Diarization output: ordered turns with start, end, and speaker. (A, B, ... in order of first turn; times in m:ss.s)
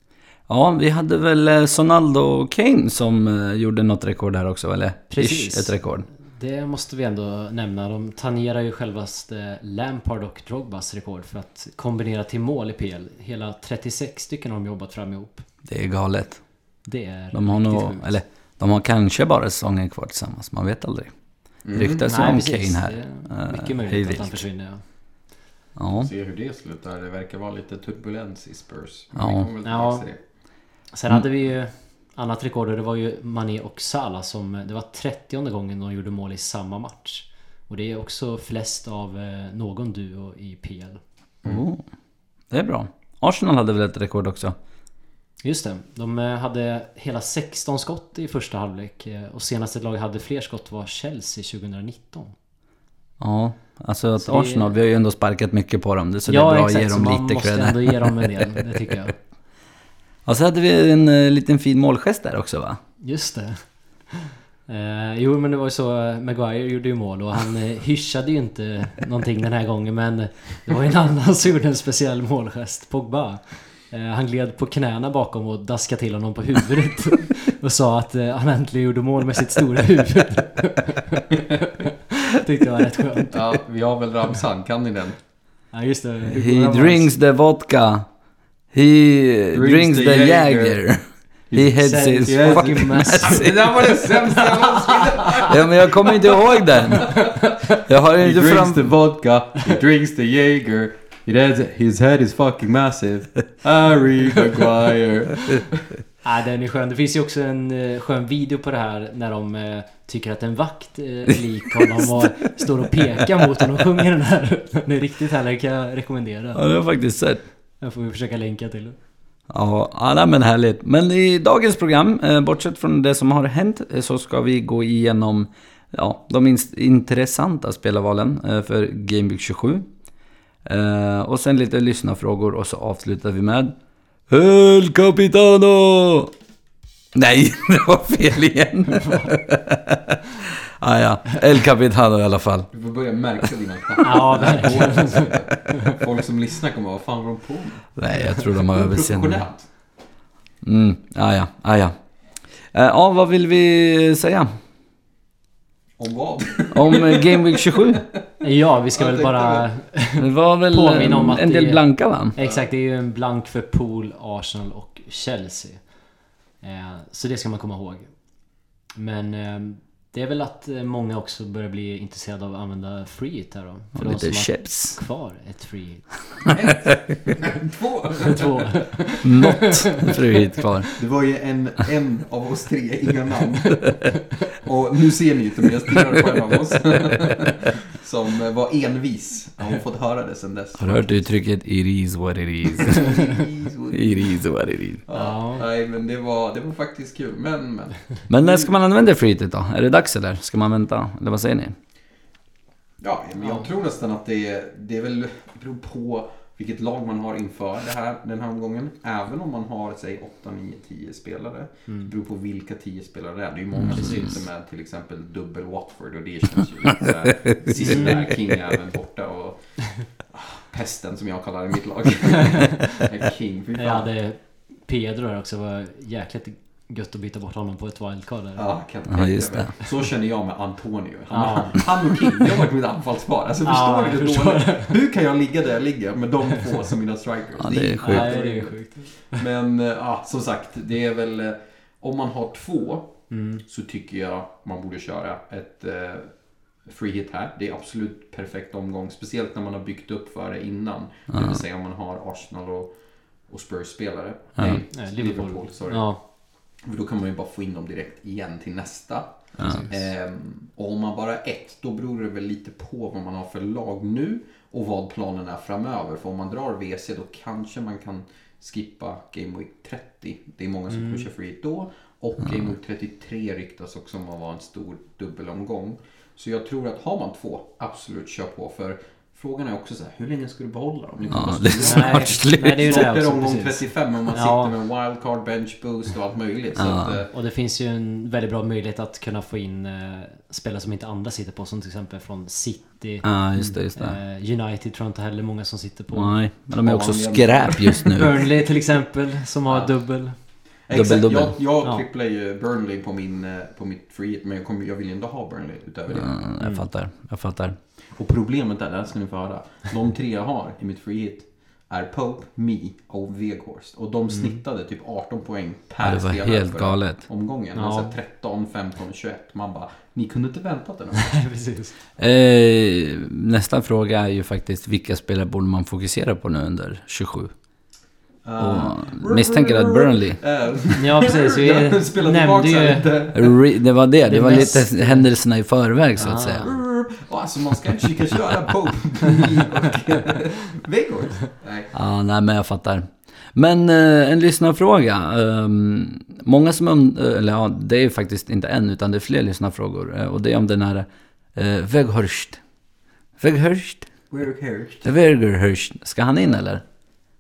0:00.5-0:06.1 A
0:05.1-0:15.5 B
0:15.6-0:24.5 A
0:16.8-0:18.2 B
0:21.6-0:22.4 C
0:22.1-0:25.3 B
0:25.8-0:26.1 A
0:26.0-0:30.2 C
0:29.2-0:29.5 A
0:29.6-0:41.0 B
0:41.4-0:41.9 A
0:42.4-0:44.6 A
0:45.4-0:52.4 B
0:53.2-0:58.4 A
0:54.2-0:54.8 B
0:56.3-0:59.2 B
1:00.2-1:02.8 A
1:03.0-1:23.6 B
1:23.3-1:25.2 C
1:25.7-1:27.1 B
1:26.2-1:28.1 A
1:28.7-1:33.9 A
1:29.5-1:30.9 C
1:31.5-1:45.9 C
1:31.8-1:33.9 B
1:35.5-1:39.0 A
1:46.2-1:56.7 B
1:56.6-1:57.4 A
1:57.8-1:59.0 B
1:59.5-2:09.9 A
2:10.6-2:13.8 A
2:14.3-2:16.3 A
2:17.1-2:20.2 A
2:20.8-2:22.7 A
2:22.7-2:29.8 C
2:24.0-2:25.7 B
2:24.4-2:24.9 A
2:28.0-2:29.9 A
2:30.6-2:34.5 A
2:36.0-2:38.2 C
2:36.7-2:38.1 A
2:38.4-2:56.5 B
2:38.9-2:39.7 C
2:40.2-2:42.4 A
2:42.4-2:42.7 C
2:54.0-2:55.0 A
2:56.5-2:59.0 C
2:58.3-3:00.1 B
2:59.2-3:00.9 A
3:01.0-3:11.4 C
3:10.8-3:13.3 A
3:12.8-3:18.8 C
3:13.9-3:15.0 A
3:15.1-3:15.6 B
3:18.3-3:21.8 A
3:23.0-3:44.1 C
3:23.4-3:23.7 B
3:31.9-3:32.1 B
3:33.8-3:34.3 A
3:37.7-3:38.3 B
3:43.8-3:48.8 B
3:48.6-4:47.3 C
3:49.1-3:49.7 A
3:51.3-3:52.4 B
3:53.6-3:54.9 B
3:57.6-3:58.3 A
3:58.0-3:59.4 B
4:03.3-4:03.6 B
4:11.3-4:11.6 A
4:14.6-4:14.8 A
4:14.6-4:16.2 B
4:19.6-4:20.1 B
4:19.6-4:19.9 A
4:30.9-4:31.3 B
4:41.3-4:43.1 A
4:41.8-4:44.7 B
4:46.8-4:47.2 A
4:47.3-4:56.4 B
4:53.2-4:54.2 A
4:56.1-4:58.4 A
4:56.8-4:58.2 C
4:58.2-5:00.4 B
4:59.7-5:06.5 C
5:00.9-5:01.6 A
5:06.1-5:07.8 A
5:06.6-5:06.9 B
5:08.1-5:21.5 C
5:14.3-5:14.6 B
5:16.0-5:17.2 A
5:17.8-5:18.2 B
5:21.2-5:22.0 B
5:22.2-5:27.6 A
5:28.4-5:33.6 C
5:28.6-5:30.4 A
5:31.0-5:33.4 B
5:33.4-5:36.8 A
5:34.2-5:35.3 B
5:36.1-5:36.8 B
5:36.4-5:42.0 C
5:41.9-5:52.7 A
5:53.4-5:54.3 A
5:54.3-5:55.1 C
5:55.0-5:56.8 A